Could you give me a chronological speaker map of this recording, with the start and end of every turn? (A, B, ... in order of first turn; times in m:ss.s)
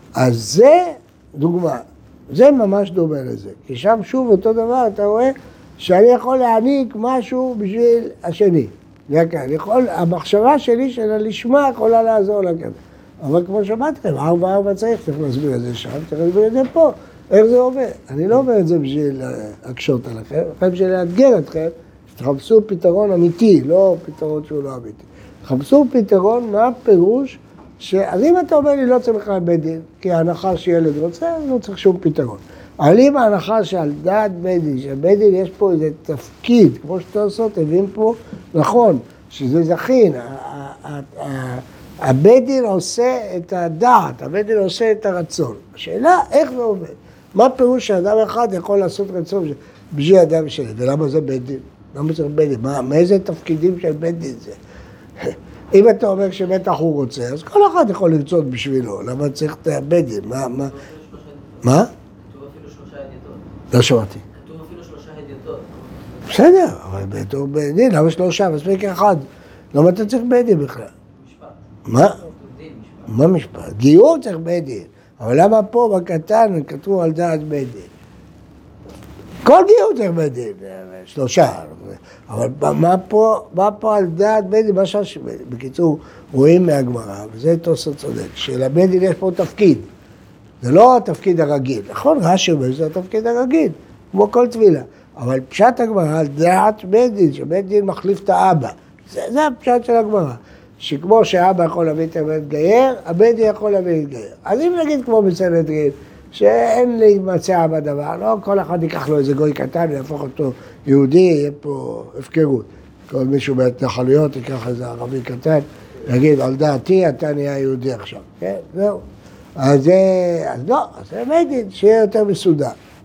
0:00.2-0:54.6 A
0:55.2-1:00.8 A
1:00.5-1:03.4 B
1:01.6-1:01.9 A
1:03.7-1:04.2 A
1:04.3-1:06.4 B
1:06.3-1:10.9 A
1:11.1-1:13.3 B
1:11.9-1:12.2 A
1:13.1-1:17.9 A
1:19.4-1:29.9 A
1:30.6-1:59.0 A
1:59.6-2:02.8 A